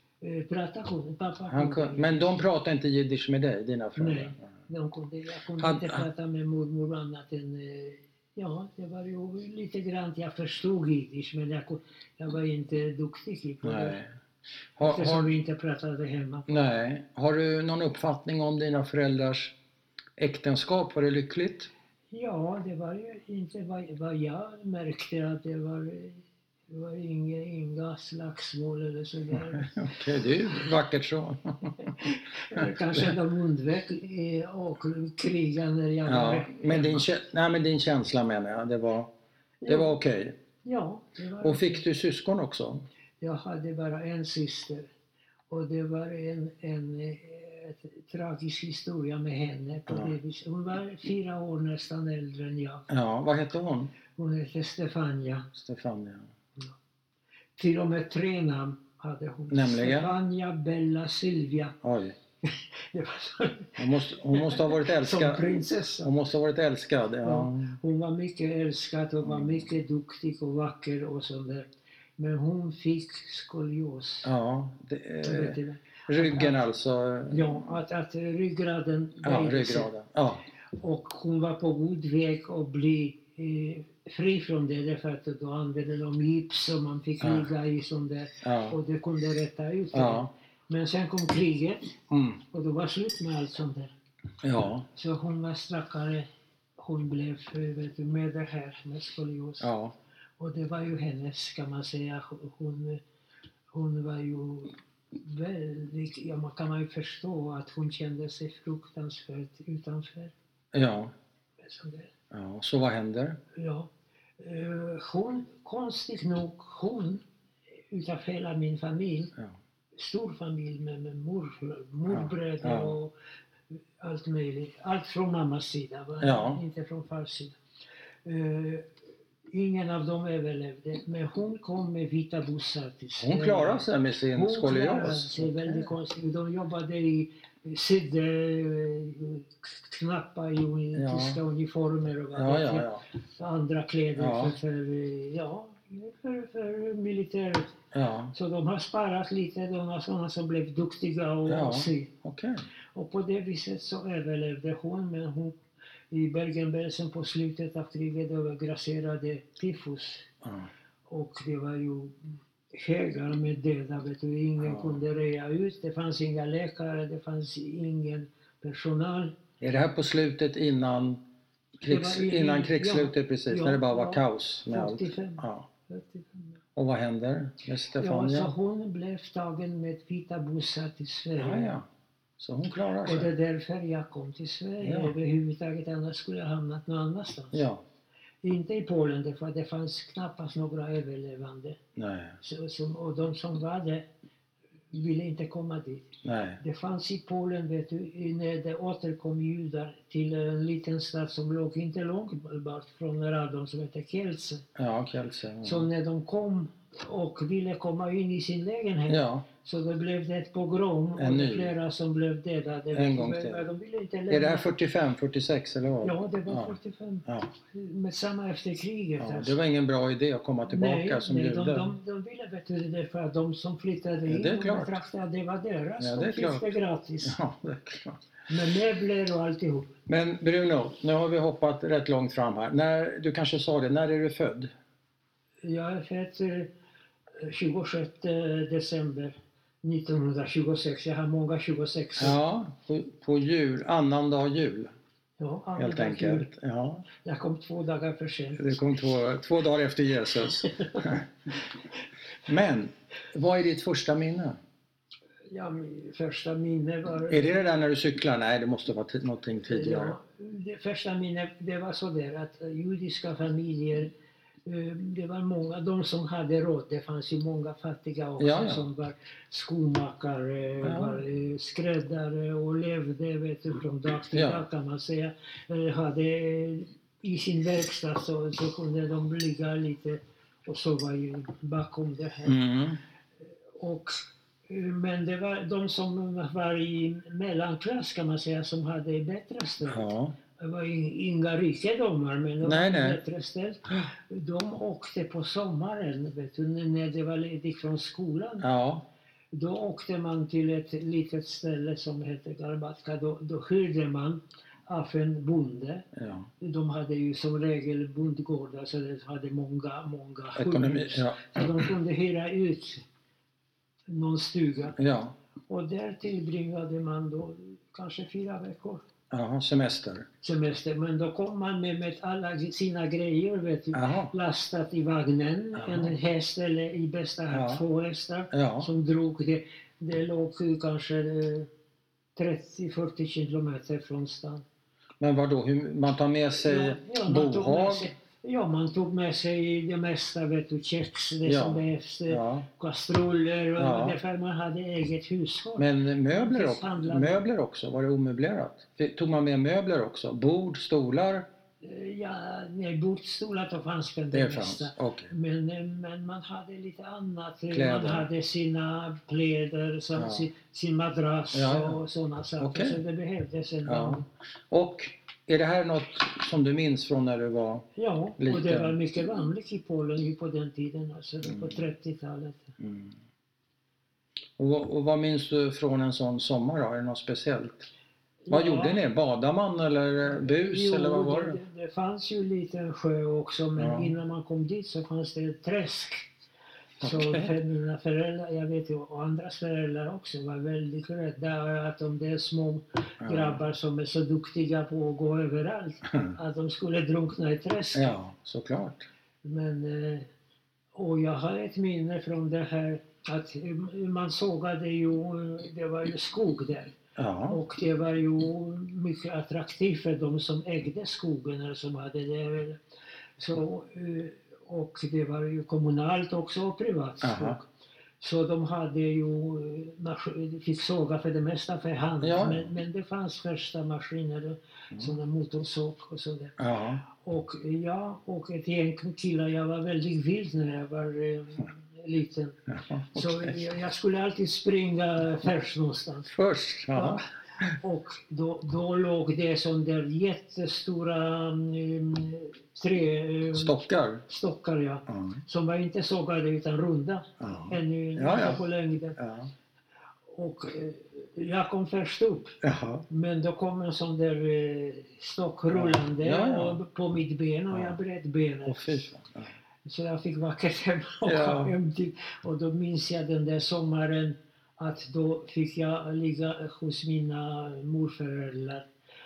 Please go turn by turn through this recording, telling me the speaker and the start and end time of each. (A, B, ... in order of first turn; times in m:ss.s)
0:00.2-0:02.4 A
0:01.5-0:04.5 B
0:04.0-0:14.0 A
0:05.6-0:06.0 B
0:13.6-0:14.1 B
0:14.8-0:15.3 B
0:14.8-0:16.5 A
0:16.5-0:19.6 B
0:20.2-0:21.7 B
0:22.1-0:30.0 A
0:29.3-0:33.2 B
0:31.8-0:37.0 A
0:36.0-0:39.1 B
0:39.6-0:39.9 A
0:39.7-0:40.4 B
0:40.6-0:41.8 A
0:41.4-0:42.8 B
0:43.2-0:44.9 A
0:45.5-0:52.9 A
0:49.9-0:50.1 B
0:52.9-0:53.9 B
0:54.2-0:55.5 A
0:55.5-0:56.3 B
0:57.6-1:01.8 A
0:59.5-1:00.1 B
1:01.8-1:02.2 B
1:02.4-1:03.8 A
1:03.8-1:05.5 B
1:04.3-1:06.1 A
1:06.0-1:07.8 B
1:07.2-1:14.3 A
1:09.4-1:09.6 B
1:14.2-1:15.6 B
1:15.2-1:16.6 A
1:16.1-1:17.5 B
1:17.3-1:19.9 A
1:19.2-1:20.4 B
1:20.8-1:31.9 A
1:27.2-1:27.5 B
1:28.4-1:28.8 B
1:29.9-1:30.3 B
1:32.1-1:32.4 B
1:32.5-1:33.9 A
1:34.4-1:34.8 B
1:34.9-1:36.3 A
1:36.8-1:39.7 A
1:39.6-1:39.9 B
1:40.4-1:43.0 A
1:43.7-1:50.3 A
1:50.7-1:51.1 B
1:51.6-1:52.1 A
1:52.3-1:53.4 B
1:53.5-1:53.9 A
1:54.4-1:57.2 A
1:57.9-1:59.3 A
1:59.9-2:03.1 A
2:02.1-2:02.9 B
2:04.0-2:07.6 A
2:06.2-2:06.6 B
2:08.2-2:08.9 A
2:09.5-2:27.7 A
2:13.2-2:15.9 B
2:20.9-2:21.4 B
2:22.3-2:23.0 B
2:24.2-2:24.5 B
2:27.9-2:28.3 B
2:28.3-2:32.1 A
2:31.5-2:32.6 B
2:32.9-2:35.5 A
2:36.1-2:40.3 A
2:40.4-2:40.7 B
2:41.1-2:49.4 A
2:44.6-2:45.0 B
2:49.6-2:51.2 B
2:51.8-2:55.7 B
2:51.8-2:56.6 A
2:56.7-2:58.5 B
2:58.0-3:01.8 A
3:01.4-3:01.8 B
3:02.4-3:03.3 B
3:03.0-3:07.6 A
3:04.8-3:05.1 B
3:07.5-3:07.8 B
3:08.4-3:11.8 A
3:12.0-3:12.4 B
3:12.4-3:14.1 A
3:14.9-3:24.6 A
3:16.2-3:16.6 B
3:24.8-3:25.9 B
3:25.6-3:34.7 A
3:29.1-3:29.4 B
3:31.2-3:31.7 B
3:32.9-3:33.6 B
3:34.3-3:37.5 B
3:36.0-3:39.6 A
3:39.2-3:41.9 B
3:40.7-3:47.4 A
3:44.3-3:45.0 B
3:46.0-3:46.7 B
3:47.2-3:48.2 B
3:48.5-3:49.9 A
3:50.1-3:54.7 B
3:55.6-3:56.7 A
3:57.4-4:02.4 A
4:02.2-4:04.9 B
4:05.4-4:06.5 A
4:05.8-4:07.0 B
4:07.2-4:08.7 A
4:08.6-4:11.2 B
4:10.8-4:11.1 A
4:12.4-4:14.6 B
4:15.5-4:17.7 A
4:17.3-4:20.1 B
4:19.7-4:24.1 A
4:24.6-4:42.6 A
4:28.4-4:28.8 B
4:30.8-4:31.2 B
4:34.3-4:34.6 B
4:42.4-4:43.0 B
4:43.8-4:58.6 A
4:49.8-4:50.3 B
4:52.6-4:53.2 B
4:58.6-4:59.0 B
4:59.5-5:06.0 A
5:06.2-5:06.5 B
5:06.6-5:13.0 A
5:10.5-5:11.9 B
5:14.1-5:15.0 A
5:15.0-5:15.3 B
5:15.7-5:19.0 A
5:19.3-5:20.3 B
5:20.4-5:31.7 A
5:23.9-5:24.3 B
5:25.8-5:26.1 B
5:27.5-5:27.8 B
5:28.5-5:28.9 B
5:32.4-5:34.6 A
5:35.2-5:38.1 B
5:36.6-5:47.4 A
5:41.4-5:42.6 B
5:43.8-5:44.2 B
5:45.8-5:51.4 B
5:51.8-6:04.2 A
5:54.3-5:55.3 B
5:57.7-5:58.3 B
6:00.1-6:00.5 B
6:01.5-6:02.0 B
6:02.6-6:03.0 B
6:03.8-6:07.8 B
6:08.0-6:12.7 A
6:08.4-6:09.0 B
6:11.4-6:11.8 B
6:12.8-6:13.2 B
6:14.6-6:17.9 B
6:18.4-6:19.0 A
6:18.5-6:21.6 B
6:20.2-6:26.3 A
6:23.8-6:24.1 B
6:27.0-6:27.5 B
6:27.0-6:38.1 A
6:33.2-6:33.6 B
6:37.9-6:39.0 B
6:39.4-6:40.3 A
6:40.9-6:47.0 A
6:47.2-6:47.6 B
6:47.5-6:52.8 A
6:53.4-6:57.7 A
6:57.2-6:57.6 B
6:58.2-7:12.6 A
7:02.2-7:02.7 B
7:06.6-7:07.0 B
7:12.7-7:13.7 B
7:13.1-7:16.3 A
7:16.3-7:17.7 B
7:16.9-7:23.7 A
7:23.5-7:24.2 B
7:24.2-7:29.2 A
7:25.1-7:25.4 B
7:27.4-7:28.6 B
7:29.2-7:29.5 B
7:30.3-7:32.6 A
7:32.6-7:33.0 B
7:33.1-7:39.0 A
7:35.7-7:36.8 B
7:37.7-7:38.0 B
7:38.7-7:39.5 B
7:39.8-7:48.9 A
7:41.2-7:41.7 B